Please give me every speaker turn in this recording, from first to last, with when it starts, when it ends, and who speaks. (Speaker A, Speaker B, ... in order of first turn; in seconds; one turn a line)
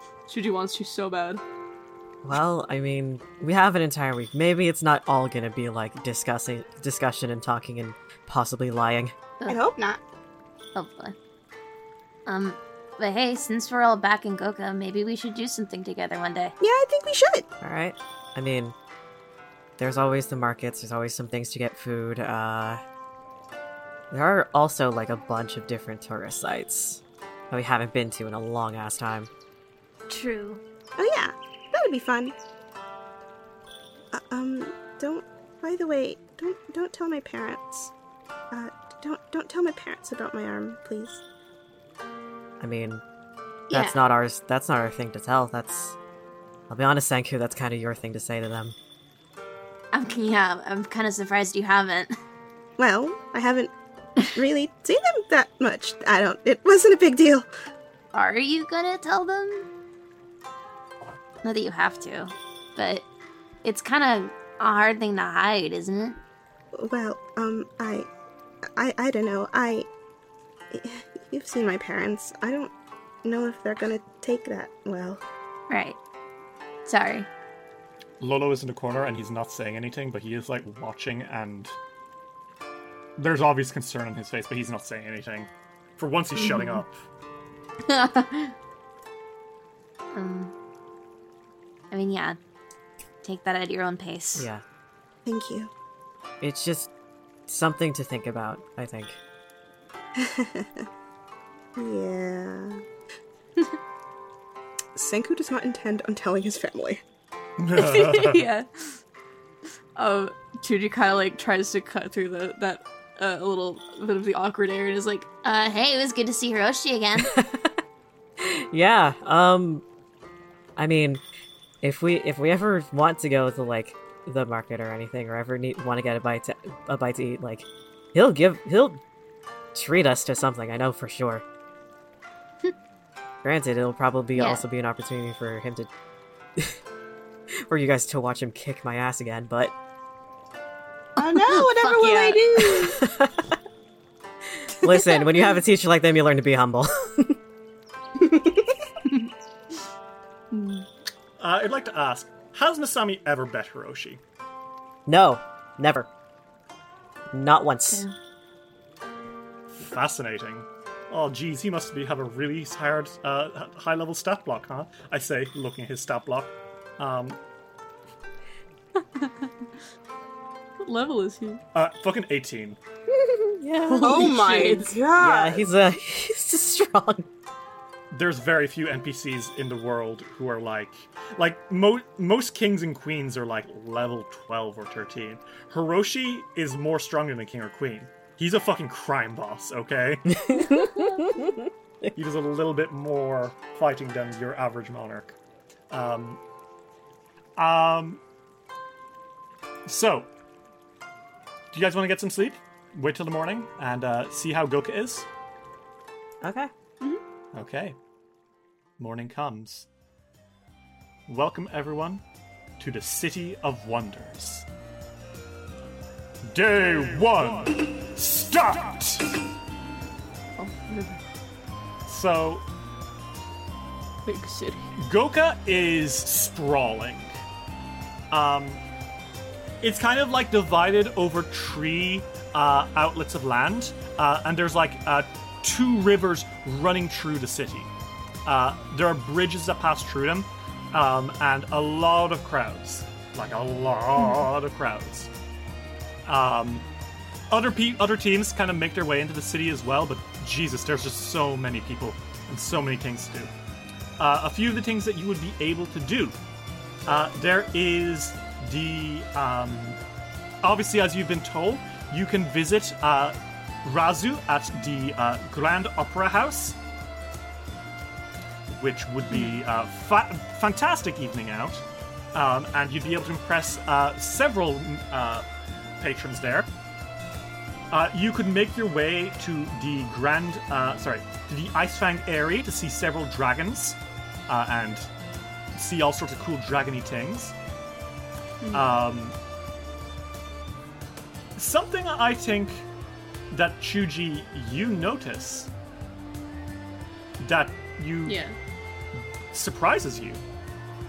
Speaker A: 0.3-1.4
Speaker B: 2.2-9.1
Speaker C: 9.5-10.0
Speaker D: 10.8-11.2
Speaker D: 12.3-16.5
Speaker C: 16.6-17.5
Speaker B: 17.6-18.8
Speaker B: 19.8-22.8
Speaker B: 24.1-29.3
Speaker D: 30.1-30.6
Speaker C: 31.0-32.4
Speaker C: 34.1-37.9
Speaker C: 38.5-41.2
Speaker B: 42.6-43.0
Speaker D: 43.7-44.0
Speaker B: 43.7-46.0
Speaker B: 46.7-48.8
Speaker D: 49.9-52.1
Speaker C: 52.8-57.5
Speaker D: 58.1-59.7
Speaker D: 61.4-63.0
Speaker D: 63.6-66.2
Speaker C: 66.7-68.1
Speaker C: 68.7-69.9
Speaker C: 70.7-72.7
Speaker C: 73.2-75.2
Speaker D: 75.7-76.0
Speaker D: 76.8-77.3
Speaker E: 78.2-81.8
Speaker E: 83.2-86.9
Speaker A: 86.4-86.8
Speaker D: 87.9-88.5
Speaker D: 90.1-90.5
Speaker D: 91.9-92.4
Speaker D: 93.2-94.5
Speaker B: 94.3-94.6
Speaker C: 95.2-95.7
Speaker B: 96.4-96.9
Speaker B: 97.5-99.2
Speaker C: 100.2-100.9
Speaker C: 101.8-102.8
Speaker C: 105.0-107.0
Speaker E: 107.6-108.4
Speaker A: 107.7-109.0
Speaker A: 110.0-115.4
Speaker D: 115.4-117.3
Speaker B: 117.2-117.8
Speaker B: 118.4-119.8
Speaker B: 120.8-121.2
Speaker B: 121.8-129.0
Speaker B: 129.8-131.4
Speaker B: 133.4-135.9
Speaker D: 134.3-134.6
Speaker B: 137.7-139.7
Speaker C: 141.2-143.0
Speaker D: 141.6-142.4
Speaker B: 143.0-143.5
Speaker B: 144.7-147.3
Speaker C: 148.2-148.8
Speaker A: 150.5-150.9
Speaker E: 151.4-154.2
Speaker B: 155.1-156.1
Speaker B: 157.3-158.0
Speaker E: 159.8-167.4
Speaker A: 169.0-169.7
Speaker A: 170.8-171.6
Speaker E: 171.7-172.8
Speaker B: 173.6-174.3
Speaker A: 173.9-174.9
Speaker C: 174.0-175.7
Speaker B: 175.2-177.3
Speaker E: 178.1-190.3
Speaker B: 190.3-192.1
Speaker E: 192.2-195.4
Speaker E: 195.9-196.4
Speaker E: 197.6-198.2
Speaker E: 199.9-200.3
Speaker E: 201.7-205.3
Speaker B: 206.4-206.7
Speaker E: 207.5-208.0
Speaker E: 209.0-209.9
Speaker E: 211.3-212.2
Speaker E: 212.8-214.7
Speaker E: 216.5-219.3
Speaker A: 220.6-221.2
Speaker E: 222.1-222.6
Speaker A: 224.2-224.9
Speaker E: 225.0-227.3
Speaker E: 228.3-228.8
Speaker E: 229.8-237.9
Speaker E: 238.5-245.3
Speaker A: 244.2-244.4
Speaker E: 246.3-246.9
Speaker E: 247.5-253.5
Speaker E: 254.2-256.4
Speaker E: 257.1-260.0
Speaker E: 260.6-266.8
Speaker E: 268.7-271.8
Speaker A: 269.3-269.6
Speaker E: 272.3-275.5
Speaker E: 276.0-276.7
Speaker E: 277.9-285.1
Speaker E: 285.8-287.6
Speaker A: 288.6-288.9
Speaker E: 288.7-289.4
Speaker E: 291.6-292.9
Speaker E: 293.5-295.7
Speaker E: 297.4-298.4
Speaker A: 298.3-298.6
Speaker E: 299.5-300.4